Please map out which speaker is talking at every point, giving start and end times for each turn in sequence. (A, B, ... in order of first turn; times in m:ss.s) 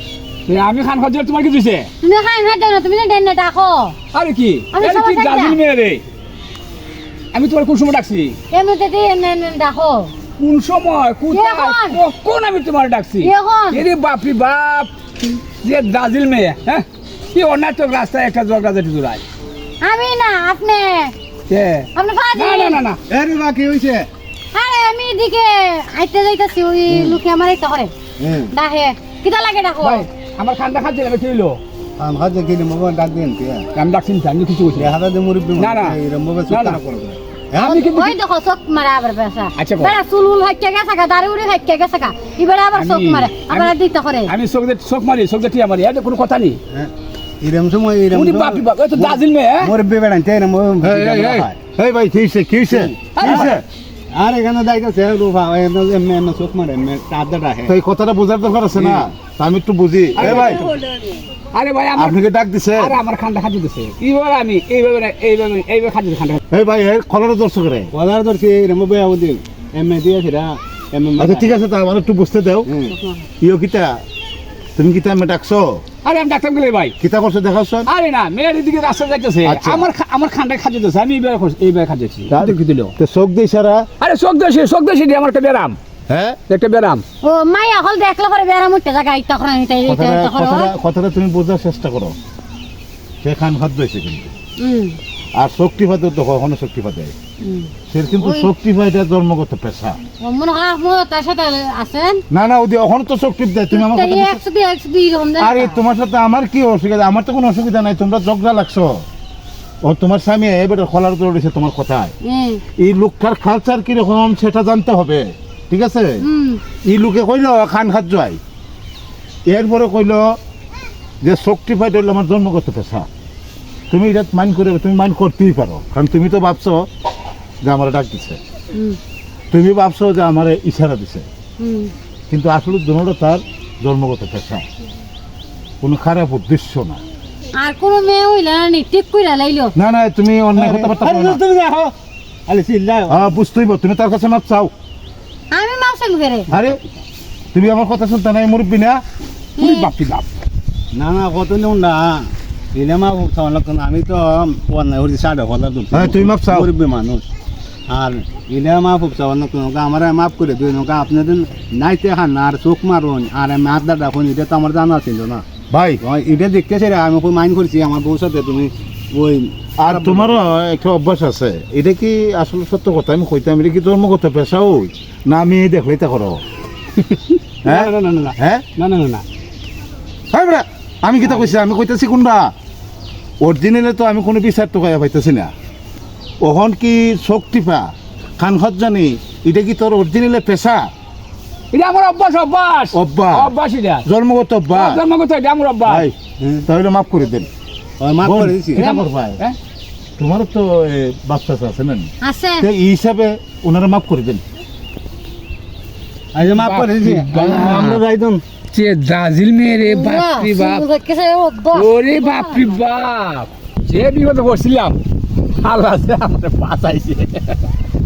0:00.5-0:01.9 A
0:02.0-0:04.0 B
0:04.1-0:06.0 A
0:04.7-0:05.6 B
0:07.3-0:08.4 A
0:08.5-0:10.1 B
0:10.4-0:19.2 A
0:11.3-0:12.0 B
0:13.2-0:13.9 B
0:19.8-0:21.1 B
0:21.5-0:23.0 A
0:22.0-0:22.8 B
0:23.1-0:24.1 C
0:24.5-0:27.9 B
0:26.9-0:27.2 C
0:28.2-0:28.5 C
0:28.5-0:30.1 B
0:29.8-0:31.6 A
0:32.0-0:33.7 C
0:33.7-0:34.9 A
0:34.8-0:37.8 C
0:35.6-0:36.8 A
0:37.6-0:38.2 A
0:37.6-0:44.3 B
0:39.6-0:40.0 A
0:42.7-0:46.6 A
0:46.7-0:51.6 C
0:48.1-0:49.7 A
0:50.8-0:51.5 A
0:50.8-0:53.6 D
0:52.6-0:53.6 C
0:53.1-0:53.5 A
0:54.1-0:57.7 C
0:57.7-1:00.7 D
0:58.8-0:59.1 C
1:00.2-1:00.6 C
1:00.2-1:00.5 A
1:01.5-1:02.2 A
1:02.0-1:03.0 D
1:02.8-1:06.4 A
1:06.5-1:07.9 D
1:07.9-1:11.6 C
1:11.2-1:12.7 D
1:12.7-1:13.0 C
1:13.4-1:14.0 D
1:14.8-1:15.8 D
1:16.0-1:17.0 A
1:17.0-1:17.9 D
1:17.9-1:22.9 A
1:19.4-1:19.9 D
1:22.3-1:23.9 D
1:24.0-1:25.8 A
1:26.1-1:26.4 D
1:26.5-1:27.0 A
1:27.2-1:30.7 B
1:29.8-1:32.2 D
1:33.2-1:34.3 D
1:34.6-1:35.0 B
1:35.4-1:37.2 D
1:37.4-1:38.5 B
1:37.9-1:40.0 D
1:40.2-1:42.2 B
1:42.3-1:44.4 D
1:43.7-1:45.8 B
1:45.4-1:49.0 D
1:49.8-1:52.1 D
1:52.2-1:52.6 B
1:52.8-1:56.2 D
1:56.2-1:56.6 B
1:56.8-1:58.4 D
1:59.5-2:00.4 D
2:01.2-2:03.1 D
2:03.9-2:06.9 D
2:07.6-2:08.4 D
2:09.5-2:11.3 D
2:11.6-2:11.9 B
2:12.3-2:14.7 D
2:15.8-2:17.0 D
2:17.6-2:19.7 B
2:19.8-2:21.4 D
2:20.6-2:21.9 C
2:22.5-2:23.2 C
2:23.1-2:24.7 D
2:25.5-2:26.5 B
2:26.5-2:26.8 D
2:27.5-2:29.0 D
2:29.6-2:29.9 B
2:29.6-2:30.3 A
2:30.9-2:37.3 C
2:35.9-2:36.7 D
2:37.9-2:45.5 C
2:45.7-2:46.0 D
2:46.0-2:50.4 C
2:49.8-2:56.4 D
2:57.0-2:59.2 A
2:57.6-2:58.6 D
3:00.3-3:02.5 D
3:03.4-3:05.5 D
3:06.4-3:10.9 D
3:11.7-3:14.0 A
3:12.9-3:13.5 D
3:14.0-3:15.0 D
3:14.7-3:16.1 A
3:15.8-3:16.1 D
3:16.4-3:16.6 C
3:16.6-3:17.5 D
3:18.0-3:18.9 C
3:18.2-3:19.4 D
3:18.8-3:19.6 A
3:20.2-3:24.4 D
3:22.2-3:22.7 B
3:26.3-3:28.4 C
3:26.4-3:28.0 A
3:27.3-3:28.0 D
3:28.7-3:30.8 A
3:29.8-3:32.8 B
3:31.7-3:35.0 A
3:35.5-3:37.6 A